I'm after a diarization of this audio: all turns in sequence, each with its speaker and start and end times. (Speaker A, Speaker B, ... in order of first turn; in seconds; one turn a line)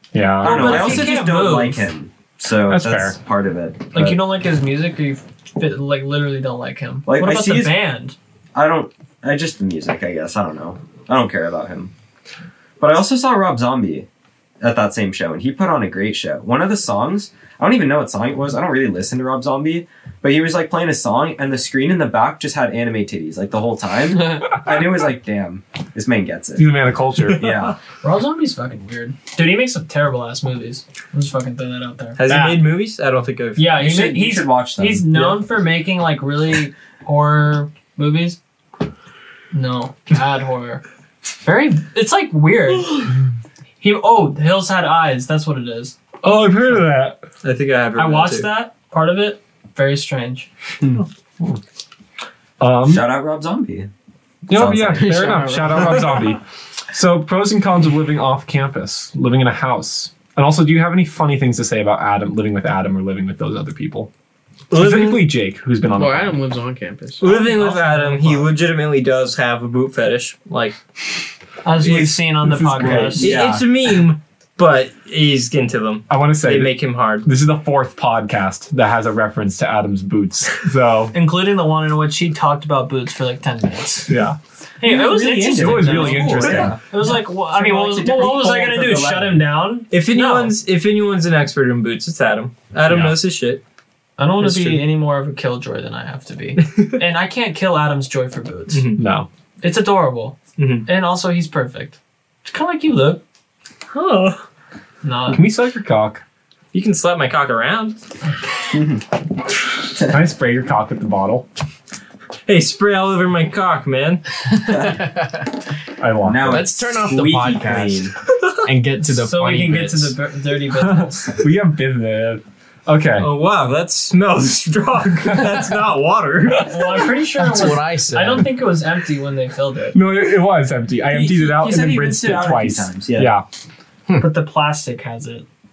Speaker A: 0.1-1.1
Speaker B: 0.4-4.2
Speaker C: 0.4-1.9
Speaker A: 2.6-3.2
Speaker C: 3.9-8.1
Speaker B: 7.0-7.8
Speaker B: 8.5-11.9
Speaker B: 12.8-14.1
Speaker B: 14.6-26.7
Speaker A: 26.6-27.7
Speaker B: 27.3-27.8
Speaker C: 28.0-32.6
Speaker D: 32.2-33.7
Speaker C: 33.5-38.4
Speaker B: 33.7-35.4
Speaker C: 39.5-40.8
Speaker C: 41.4-43.2
Speaker C: 43.8-46.0
Speaker A: 46.2-47.2
Speaker D: 47.4-48.5
Speaker C: 48.0-50.5
Speaker A: 50.9-51.6
Speaker A: 52.6-53.0
Speaker B: 52.8-53.9
Speaker A: 54.5-64.1
Speaker B: 54.5-56.1
Speaker E: 55.0-56.0
Speaker D: 64.7-65.3
Speaker A: 64.7-66.4
Speaker E: 65.9-67.4
Speaker D: 67.2-70.8
Speaker C: 67.2-68.5
Speaker C: 71.6-73.4
Speaker D: 71.8-72.2
Speaker A: 72.4-73.6
Speaker D: 73.2-77.3
Speaker A: 76.1-81.1
Speaker C: 81.1-84.2
Speaker A: 84.1-84.4
Speaker C: 84.8-90.5
Speaker B: 84.8-89.4
Speaker A: 85.5-86.8
Speaker D: 89.9-93.6
Speaker A: 92.9-93.2
Speaker C: 94.2-98.8
Speaker D: 96.6-96.9
Speaker D: 98.7-99.0
Speaker A: 99.0-99.3
Speaker C: 99.6-103.2
Speaker D: 100.6-100.9
Speaker D: 103.9-104.4
Speaker C: 105.0-105.4
Speaker A: 105.3-106.2
Speaker D: 106.7-108.0
Speaker B: 108.7-109.0
Speaker B: 109.9-110.2
Speaker A: 110.1-111.5
Speaker D: 112.5-114.2
Speaker E: 114.8-115.5
Speaker A: 116.0-116.7
Speaker B: 116.2-118.1
Speaker E: 116.4-118.1
Speaker E: 118.6-120.2
Speaker C: 119.0-121.4
Speaker A: 120.8-123.3
Speaker D: 123.2-127.0
Speaker C: 126.6-130.0
Speaker E: 127.3-128.5
Speaker A: 129.9-133.4
Speaker B: 131.1-133.3
Speaker C: 134.2-135.4